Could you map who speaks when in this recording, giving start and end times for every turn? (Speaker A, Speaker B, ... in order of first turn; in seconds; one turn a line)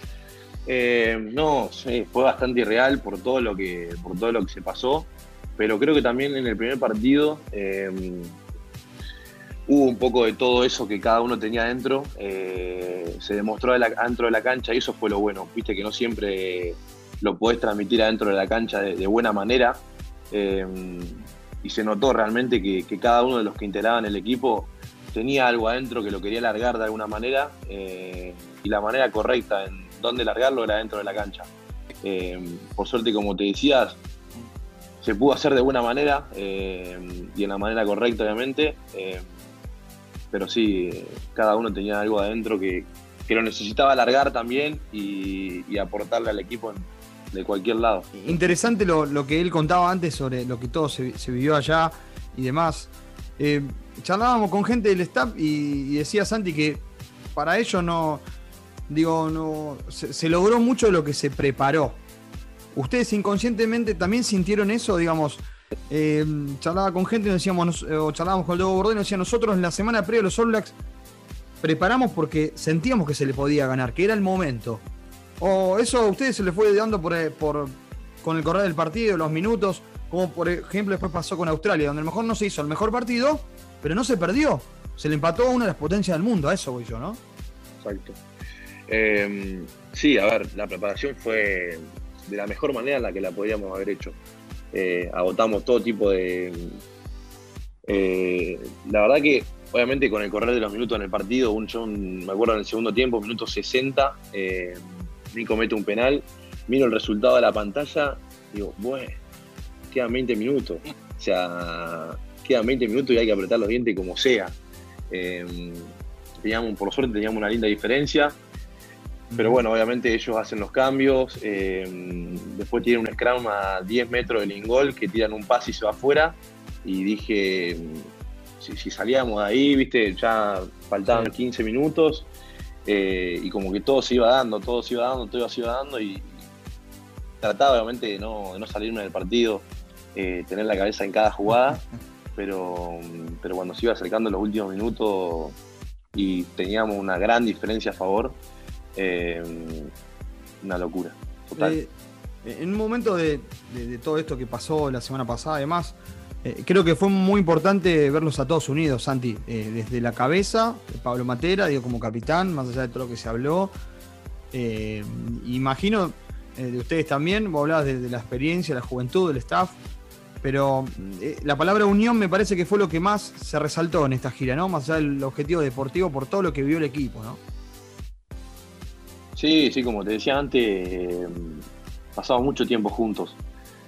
Speaker A: 0.7-8.4
Speaker A: 9.7-31.5
Speaker A: 32.0-34.0
Speaker A: 35.0-39.3
Speaker A: 40.3-48.6
Speaker B: 48.2-58.2
Speaker B: 58.9-62.0
Speaker B: 62.7-70.8
Speaker B: 71.6-74.8
Speaker B: 75.4-87.2
Speaker A: 87.8-88.2
Speaker A: 88.9-94.2
Speaker A: 94.7-96.8
Speaker A: 97.9-109.2
Speaker A: 109.9-114.6
Speaker A: 115.1-118.4
Speaker B: 119.3-119.6
Speaker A: 119.3-128.1
Speaker A: 128.6-132.3
Speaker B: 131.1-131.3
Speaker A: 132.9-136.5
Speaker A: 137.4-141.8
Speaker A: 142.3-145.6
Speaker A: 146.1-148.4
Speaker A: 149.0-149.9
Speaker A: 150.6-151.8
Speaker B: 151.6-151.9
Speaker B: 152.4-163.7
Speaker B: 164.5-169.8
Speaker B: 170.4-177.4
Speaker A: 179.4-181.6
Speaker A: 182.2-183.4